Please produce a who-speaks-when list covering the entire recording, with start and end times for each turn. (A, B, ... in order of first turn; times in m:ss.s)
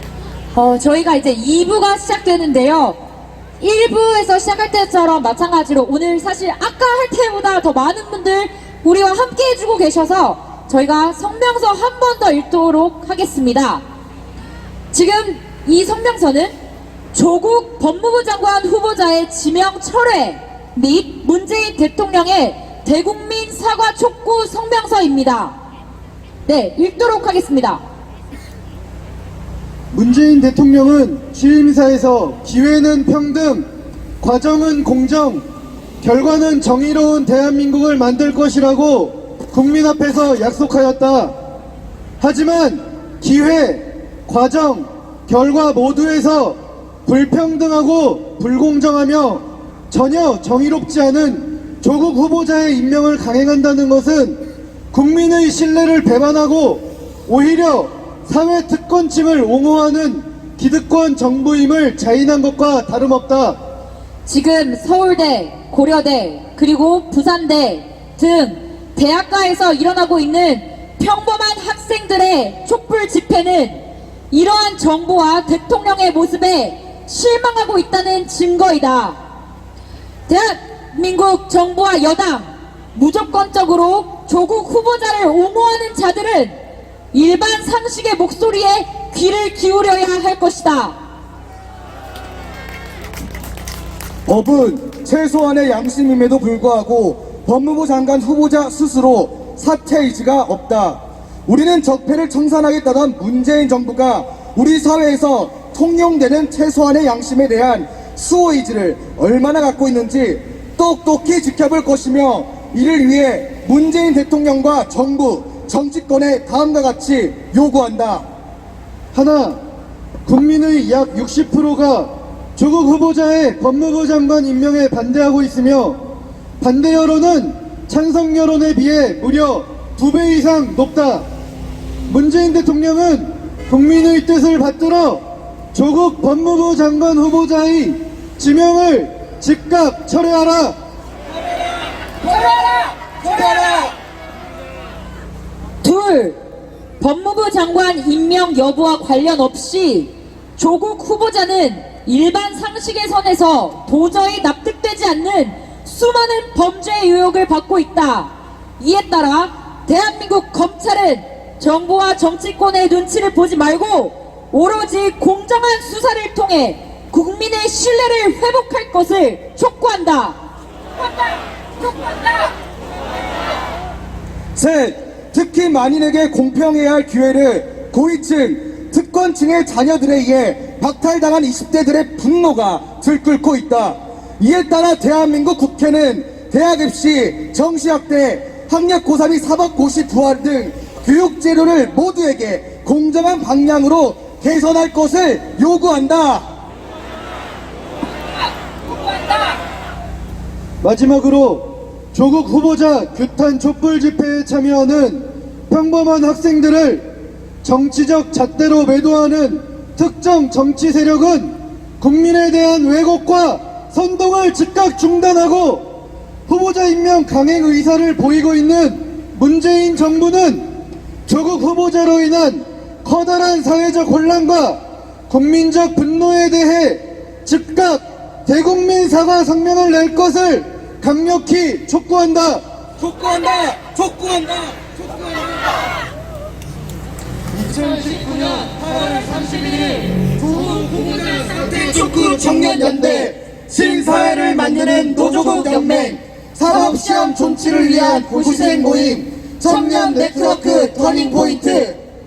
0:00.5-0:03.0 A
0:03.6-0:13.8 A
0:14.9-0:16.5 A
0:17.1-0:25.6 A
0:26.5-0:27.8 A
0:29.9-0:33.7 B
0:34.2-0:35.4 B
0:36.0-0:41.3 B
0:42.2-0:54.4 B
0:54.9-1:03.6 B
1:04.3-1:19.2 A
1:20.3-1:26.6 A
1:27.1-1:31.0 A
1:34.3-1:58.3 C
1:59.1-1:59.6 B
2:00.3-2:06.0 B
2:06.6-2:11.2 B
2:12.1-2:15.2 B
2:15.7-2:20.8 B
2:22.2-2:23.8 A
2:23.4-2:23.8 C
2:25.8-2:26.4 A
2:27.0-2:50.4 A
2:51.0-2:52.5 A
2:54.6-3:16.4 C
3:20.8-3:27.1 B
3:27.6-3:35.9 B
3:36.5-3:40.7 B
3:41.3-3:52.6 B
3:53.0-3:55.6 C
3:57.5-4:12.0 C
4:05.8-4:06.1 A